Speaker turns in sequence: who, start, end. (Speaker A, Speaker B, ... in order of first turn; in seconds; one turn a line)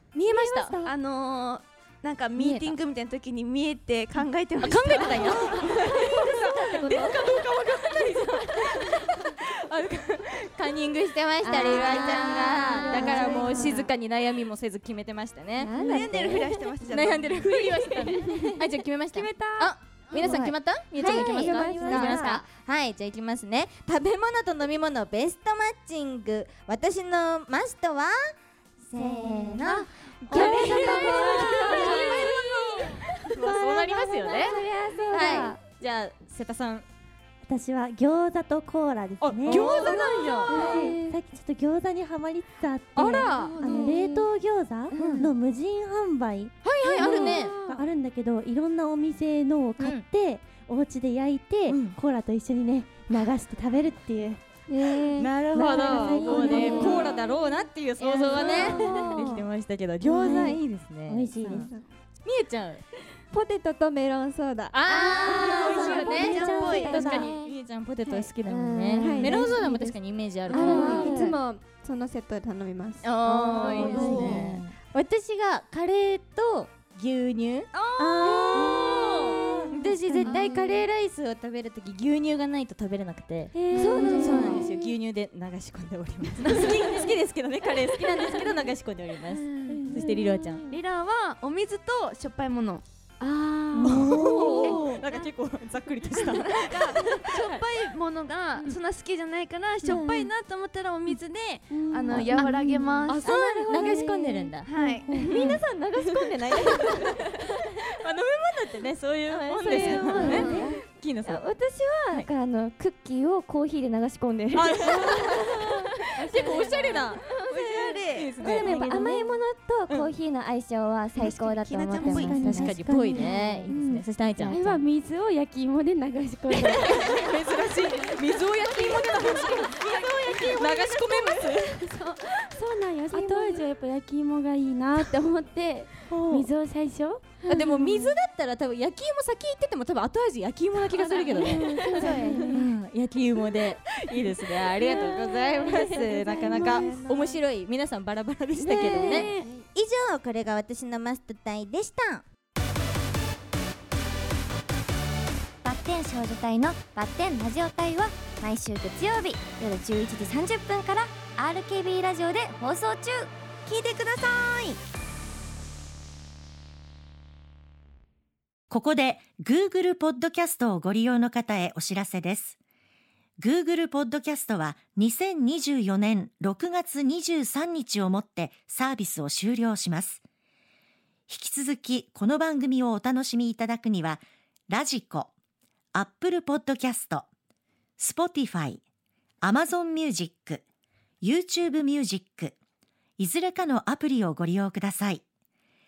Speaker A: 0.1-0.8
Speaker B: 0.2-0.9
Speaker C: 0.8-5.8
Speaker D: 2.4-2.7
Speaker A: 4.6-16.3
Speaker D: 11.4-13.9
Speaker E: 13.1-13.8
Speaker D: 15.6-16.9
Speaker C: 15.8-17.9
Speaker A: 16.9-34.6
Speaker F: 19.1-19.5
Speaker D: 20.1-22.4
Speaker F: 21.5-21.9
Speaker D: 28.9-32.3
Speaker E: 30.3-32.2
Speaker D: 34.1-35.6
Speaker A: 35.1-36.9
Speaker B: 37.5-57.1
Speaker A: 39.2-40.6
Speaker D: 40.5-41.1
Speaker A: 43.0-43.5
Speaker D: 43.7-44.2
Speaker D: 44.9-45.3
Speaker A: 46.6-47.6
Speaker F: 47.3-47.7
Speaker A: 51.7-52.0
Speaker A: 54.9-61.7
Speaker E: 54.9-57.2
Speaker D: 56.3-57.0
Speaker E: 58.3-58.6
Speaker D: 58.3-59.1
Speaker B: 58.6-59.4
Speaker B: 60.0-61.7
Speaker E: 61.4-61.8
Speaker A: 62.2-62.8
Speaker E: 63.3-66.9
Speaker A: 64.7-71.2
Speaker D: 64.9-67.5
Speaker B: 65.8-67.3
Speaker D: 68.1-69.9
Speaker E: 69.0-69.7
Speaker D: 70.5-71.3
Speaker E: 70.5-74.5
Speaker B: 70.5-71.0
Speaker A: 73.0-90.7
Speaker B: 73.6-74.6
Speaker D: 73.6-74.4
Speaker C: 77.8-78.3
Speaker D: 80.2-80.4
Speaker F: 83.5-84.8
Speaker D: 83.7-84.7
Speaker B: 89.7-90.7
Speaker C: 90.7-92.8
Speaker F: 93.2-94.1
Speaker A: 93.8-97.7
Speaker B: 94.5-94.8
Speaker C: 96.1-103.2
Speaker B: 99.8-100.3
Speaker F: 102.2-102.5
Speaker B: 102.3-105.6
Speaker A: 103.1-104.7
Speaker D: 103.7-104.1
Speaker C: 104.7-106.9
Speaker D: 105.3-105.6
Speaker A: 106.0-111.5
Speaker D: 109.6-115.6
Speaker F: 109.6-110.3
Speaker B: 110.3-110.8
Speaker A: 114.5-115.5
Speaker A: 116.1-117.2
Speaker D: 116.3-123.3
Speaker C: 117.4-118.3
Speaker A: 118.1-118.7
Speaker B: 118.4-119.4
Speaker C: 121.5-121.8
Speaker B: 121.9-123.8
Speaker A: 122.1-124.8
Speaker F: 124.5-127.2
Speaker A: 126.6-131.9
Speaker F: 129.4-130.4
Speaker F: 131.2-137.4
Speaker D: 133.1-133.6
Speaker A: 136.1-136.4
Speaker A: 137.4-152.2
Speaker F: 141.3-142.6
Speaker D: 141.4-142.6
Speaker F: 145.6-146.8
Speaker E: 145.7-147.4
Speaker F: 148.5-149.5
Speaker D: 148.8-149.3
Speaker D: 155.7-163.2
Speaker G: 168.7-172.6
Speaker G: 173.4-180.2
Speaker G: 181.3-185.3
Speaker G: 185.9-187.3
Speaker G: 188.0-188.8
Speaker G: 189.4-190.6
Speaker G: 191.2-192.5
Speaker G: 193.2-195.2